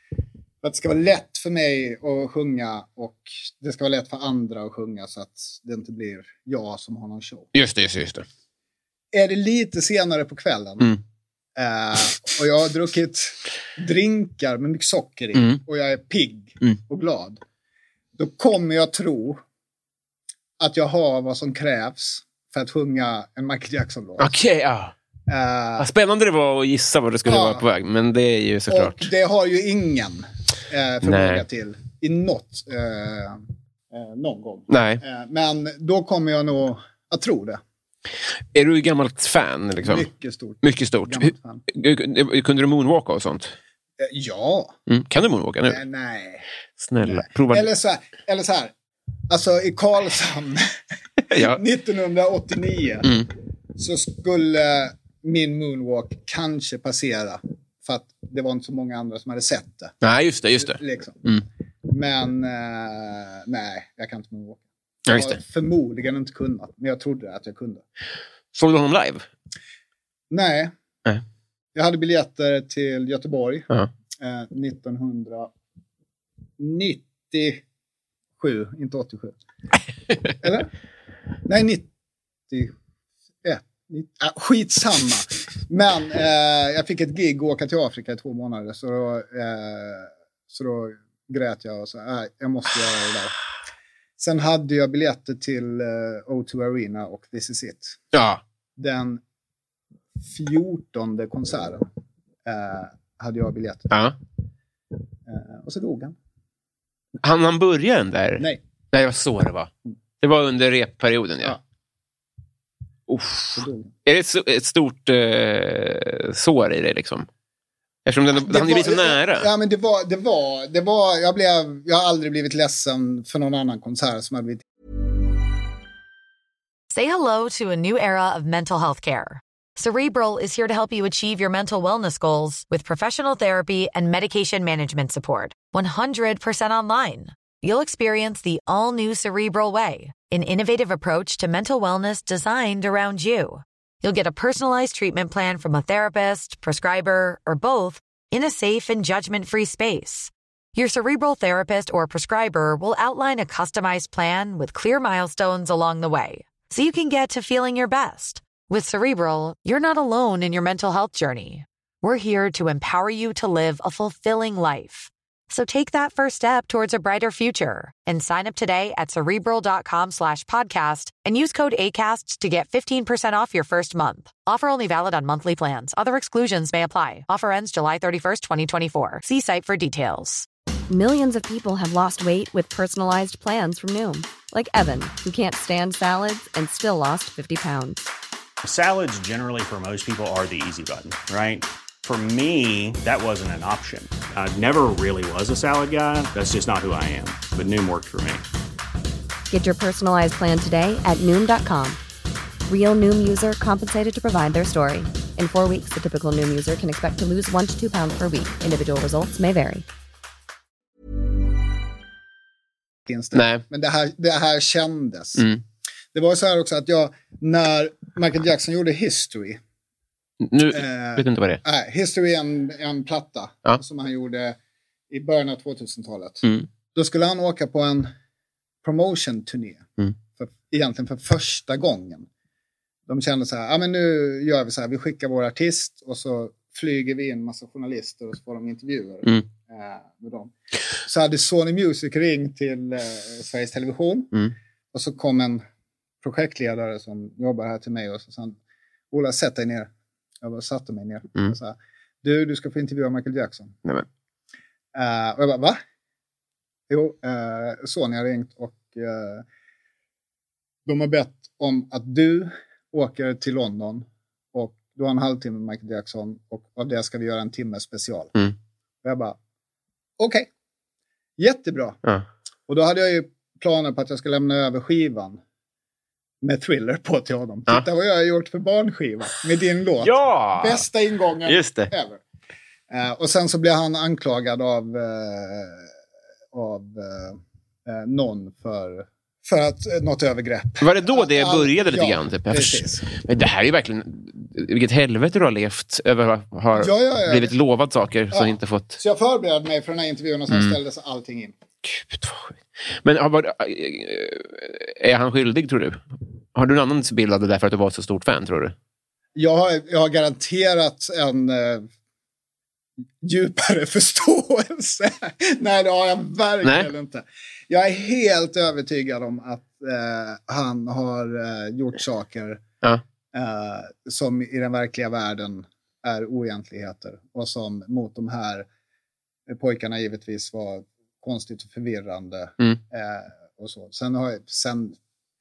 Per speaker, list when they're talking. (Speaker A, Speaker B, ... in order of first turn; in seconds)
Speaker A: 0.6-7.5, 9.1-11.0, 11.6-17.4, 18.2-19.4, 20.6-24.3, 25.3-25.9, 27.3-27.6, 28.7-37.6, 39.8-41.6, 44.0-44.8, 45.7-46.5, 47.0-48.7, 49.3-50.7, 51.3-53.1, 53.8-59.9, 60.6-61.3, 61.9-67.8, 70.3-70.7, 71.8-73.7, 74.2-75.5, 76.6-77.6, 78.4-79.4, 80.4-80.7, 81.5-81.9, 82.5-82.7, 83.4-93.3, 94.2-98.0, 98.8-99.2, 100.2-101.9, 102.5-104.0, 105.3-106.2, 113.5-113.9, 118.3-124.6, 213.1-215.5, 216.1-219.6, 220.7-224.6, 225.1-228.1, 228.8-232.3, 233.1-244.3, 244.9-245.6, 246.2-248.6, 249.1-249.9, 250.4-253.8, 254.9-255.8, 256.9-259.4, 260.9-268.3, 269.0-269.4, 270.2-270.5, 271.4-272.0, 272.7-275.4, 276.4-282.2, 282.9-285.9, 286.5-293.1, 296.8-297.5, 298.3-301.5, 309.4-311.9, 313.2-322.6, 323.3-328.7, 329.5-335.0
Speaker B: 7.5-8.2, 24.2-24.9, 25.8-29.1, 31.0-31.4, 34.7-35.0, 38.5-40.1, 40.6-43.5, 44.9-45.8, 46.8-47.7, 51.3-51.6, 60.0-61.4, 65.1-65.4, 68.5-69.3, 98.1-98.4, 103.9-104.2, 107.2-109.7, 110.2-111.6, 113.1-117.3, 118.1-119.5, 213.3-213.6, 220.4-221.6, 280.0-280.9, 281.4-281.9, 290.8-299.0, 301.8-306.0, 306.6-308.7, 316.6-316.9
Speaker C: 126.9-180.5
Speaker D: 180.9-188.1, 199.5-202.0, 202.7-209.9
Speaker E: 188.6-198.4